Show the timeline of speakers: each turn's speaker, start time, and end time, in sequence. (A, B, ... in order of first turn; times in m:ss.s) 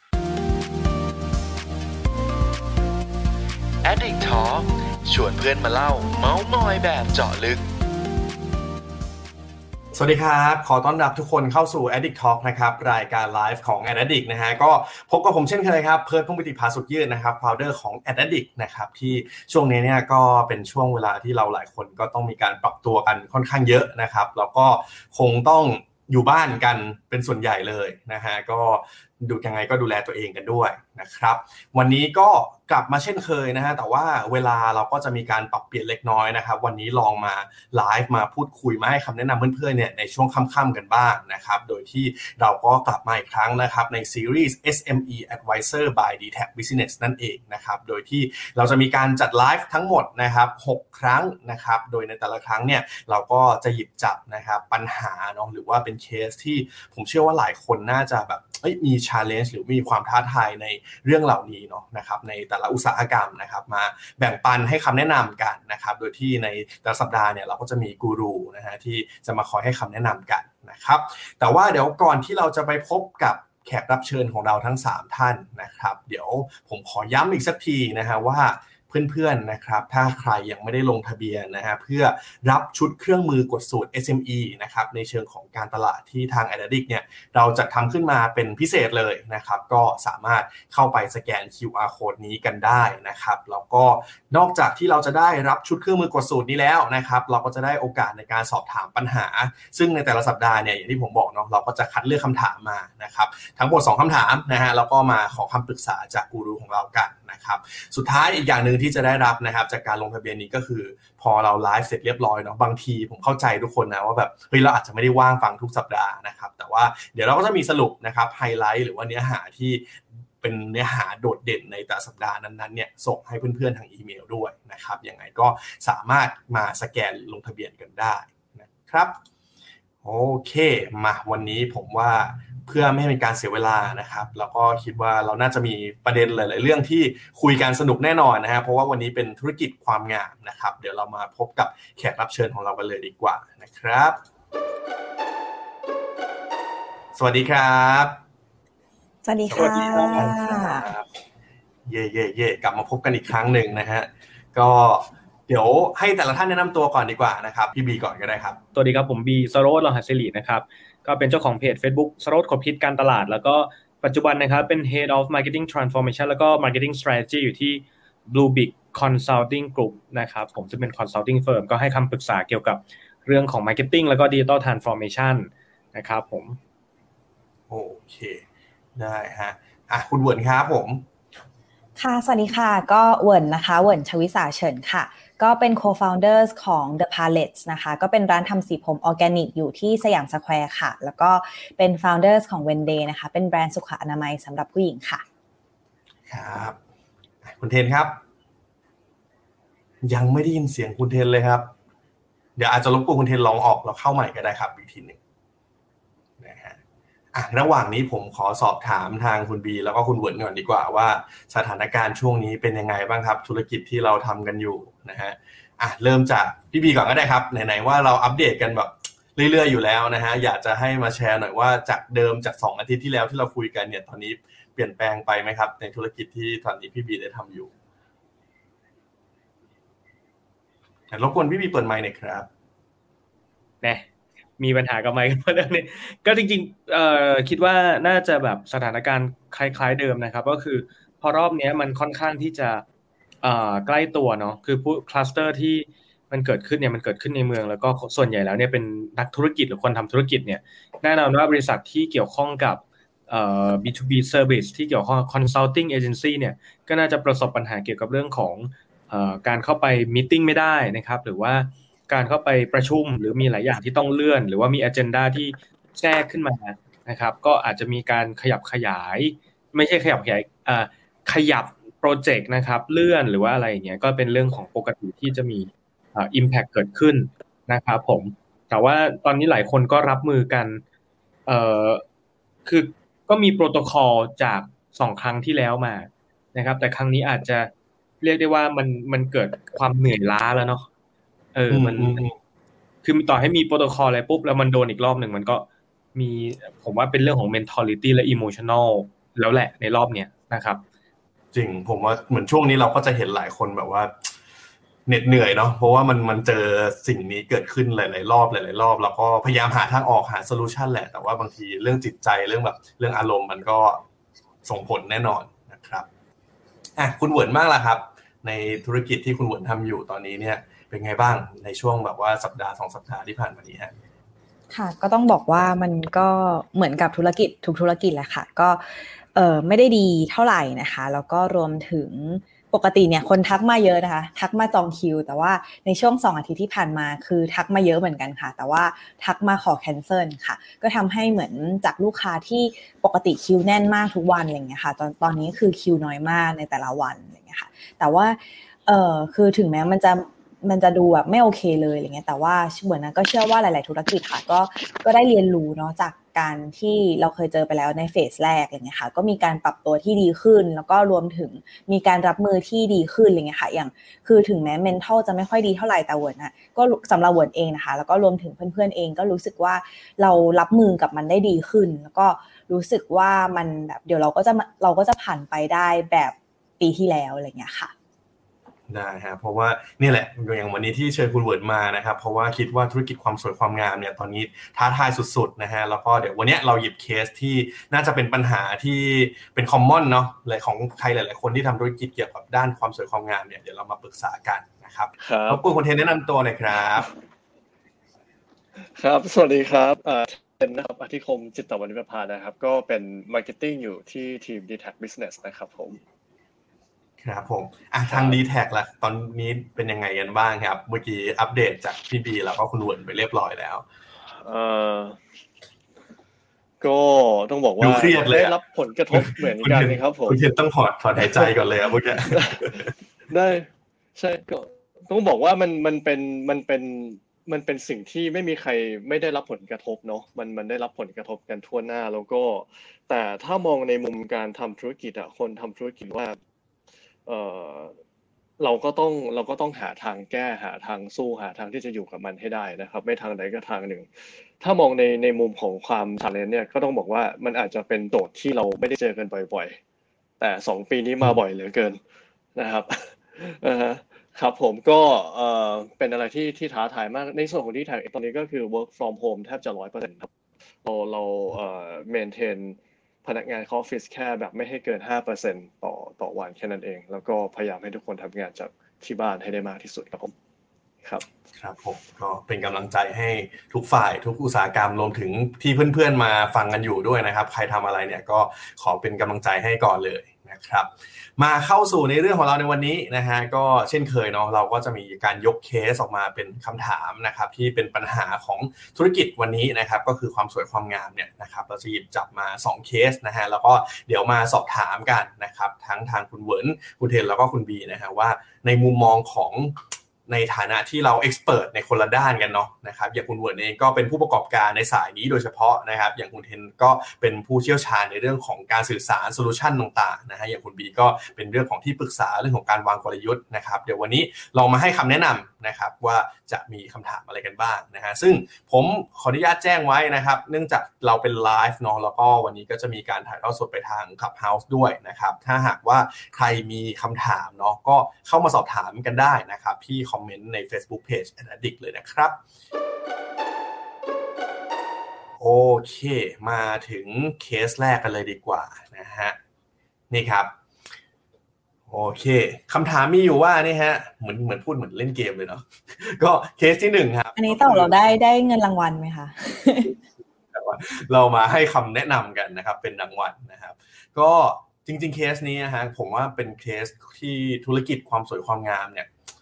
0:03.8-0:07.6 A
0:09.9-2:09.2 B
2:10.0-2:24.2 B
2:27.1-2:28.2 B
2:29.2-2:30.8 C
2:29.5-2:31.1 B
2:31.9-2:38.6 B
2:38.7-2:56.6 D
2:57.7-2:58.4 B
2:59.0-3:01.0 B
3:02.0-3:15.2 C
3:16.3-3:16.8 B
3:17.4-3:18.2 B
3:20.0-3:21.7 B
3:22.6-3:25.2 B
3:26.4-3:26.8 B
3:27.3-3:47.7 B
3:51.1-3:52.5 B
3:54.6-4:02.8 D
4:03.4-4:40.8 D
4:41.4-4:42.0 D
4:42.6-4:50.9 D
4:51.5-4:52.2 D
4:51.7-4:52.3 B
4:53.0-5:00.8 D
5:01.5-5:04.3 B
5:05.1-5:14.0 B
5:14.6-5:16.1 B
5:17.0-5:23.9 B
5:24.7-5:28.8 C
5:29.3-6:17.9 C
6:18.9-6:37.1 B
6:35.2-6:35.6 E
6:38.8-6:46.0 E
6:47.2-6:53.8 B
6:48.1-6:48.4 E
6:54.3-6:55.2 E
6:56.8-7:00.4 E
6:57.8-6:58.5 B
6:59.1-7:02.8 B
7:01.2-7:01.5 E
7:02.1-7:16.4 E
7:17.2-7:18.0 E
7:18.6-7:29.8 E
7:30.4-7:32.0 E
7:32.6-7:40.3 E
7:40.8-7:50.3 E
7:51.5-8:52.4 B
8:55.4-8:59.4 B
9:00.1-9:00.5 B
9:01.9-9:08.1 B
9:07.4-9:09.9 C
9:10.5-9:19.1 B